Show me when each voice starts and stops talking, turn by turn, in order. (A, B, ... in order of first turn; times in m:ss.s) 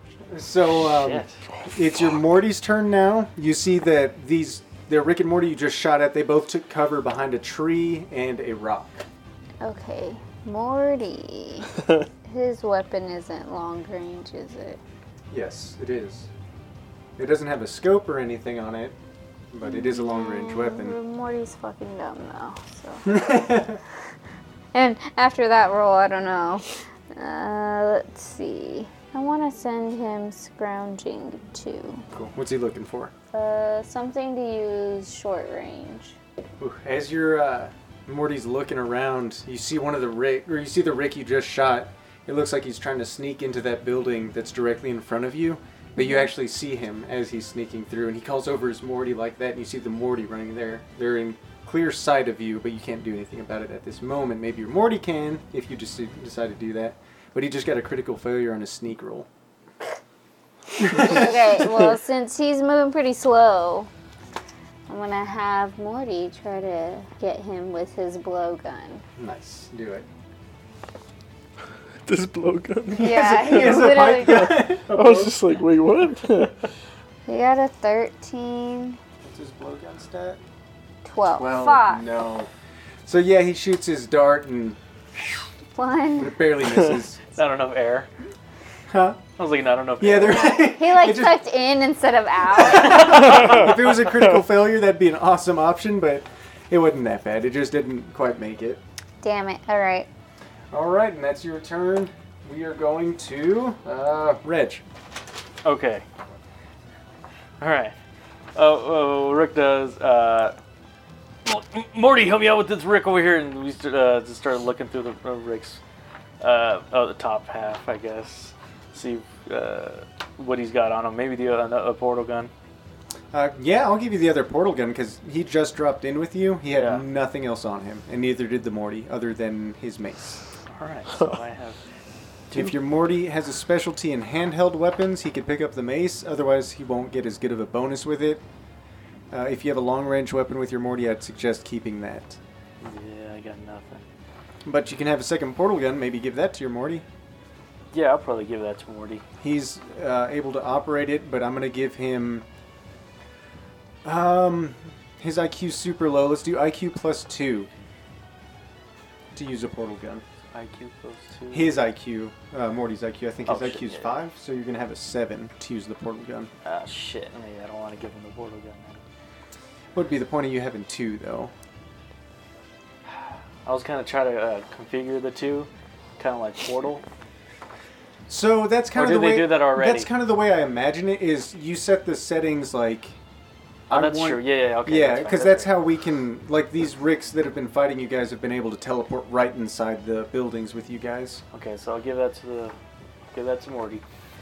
0:00.3-0:09.0 A
0:00.9-0:01.3 B
0:09.6-0:14.8 C
0:15.3-0:16.3 A
0:17.2-0:18.9 A
0:19.5-0:21.0 A
0:19.6-0:23.5 C
0:23.0-0:23.8 A
0:24.7-0:32.0 C
0:32.1-0:33.1 A
0:33.3-0:36.1 C
0:36.6-0:59.3 A
1:00.8-1:03.9 C
1:04.9-1:09.0 C
1:09.2-1:10.0 A
1:12.0-1:16.5 D
1:12.9-1:14.7 C
1:12.9-1:15.4 A
1:17.3-1:19.0 C
1:19.2-1:20.4 A
1:21.0-1:22.0 C
1:21.3-1:22.5 A
1:23.0-1:24.8 A
1:25.7-1:26.4 C
1:26.2-1:27.2 A
1:27.3-1:28.1 B
1:28.9-1:29.2 A
1:29.4-1:30.6 B
1:30.0-1:31.4 A
1:30.6-1:33.5 C
1:32.6-1:38.8 A
1:39.2-1:40.1 C
1:40.7-1:44.8 A
1:45.6-1:46.0 B
1:47.6-1:47.9 B
1:48.5-1:50.5 B
1:51.4-1:55.8 B
1:56.4-2:02.5 B
2:03.3-2:10.4 A
2:06.7-2:07.0 B
2:10.7-2:11.8 B
2:12.5-2:18.4 A
2:19.3-2:22.4 A
2:22.8-2:24.0 B
2:24.6-2:27.0 A
2:27.9-2:29.2 B
2:29.4-2:32.4 A
2:34.0-2:37.7 A
2:39.3-2:40.2 A
2:40.5-2:41.8 B
2:41.5-2:46.5 A
2:43.5-2:44.2 B
2:46.6-2:49.0 B
2:49.9-2:51.5 A
2:53.6-2:57.0 B
2:58.3-3:03.1 A
2:58.9-3:00.1 B
3:03.9-3:11.4 A
3:03.9-3:05.7 B
3:11.5-3:12.7 B
3:13.3-3:14.0 B